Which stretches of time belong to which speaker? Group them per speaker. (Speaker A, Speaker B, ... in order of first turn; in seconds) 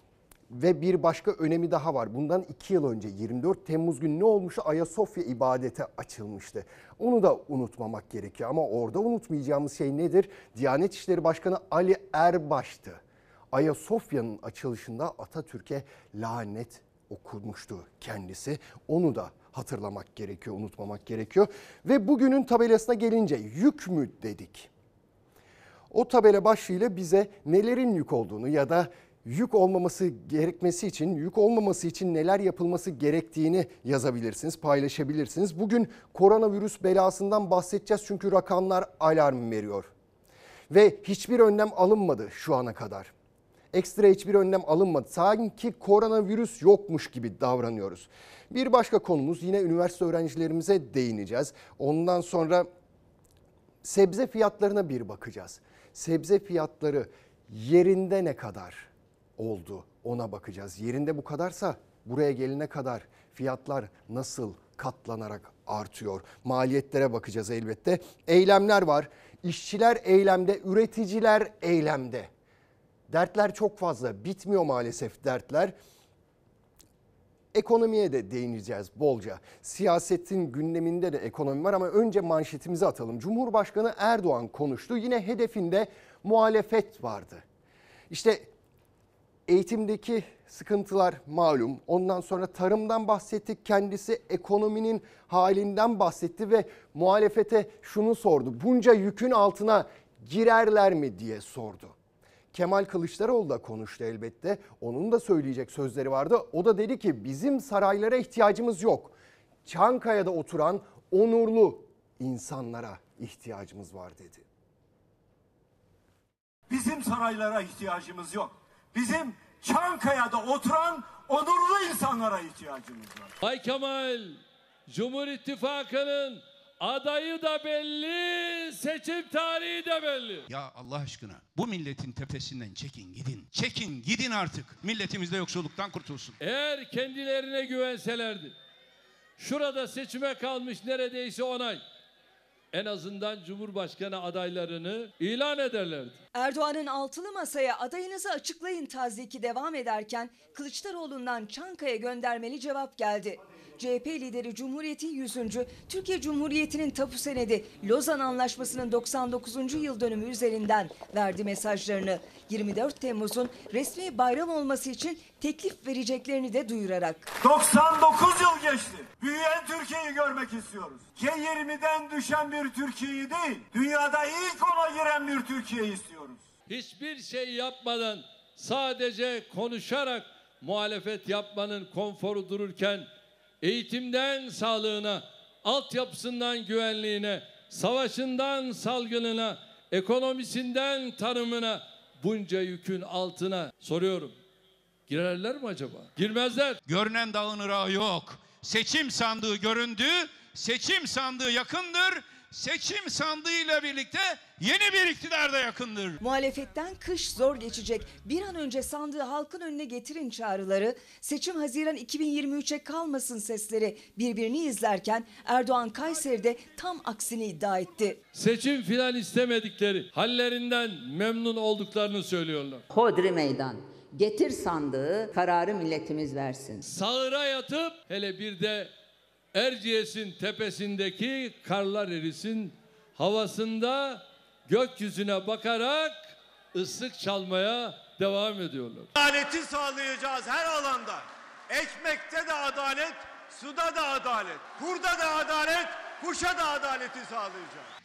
Speaker A: 0.5-24.7, 25.9-39.9, 40.7-43.1, 43.7-52.7, 53.8-72.3, 73.1-75.8, 77.5-87.4, 88.1-88.5, 89.5-102.0, 102.5-114.5
Speaker B: 116.7-123.3, 167.4-176.4, 239.2-247.9
Speaker C: 123.4-130.5, 136.4-138.6, 139.4-141.8, 142.7-146.2, 176.7-183.1, 183.6-194.3, 195.1-196.8, 218.3-222.8, 226.8-228.9, 229.5-239.1
Speaker D: 130.5-136.4, 196.9-206.2
Speaker E: 146.4-167.3, 206.2-218.2
Speaker F: 222.9-226.8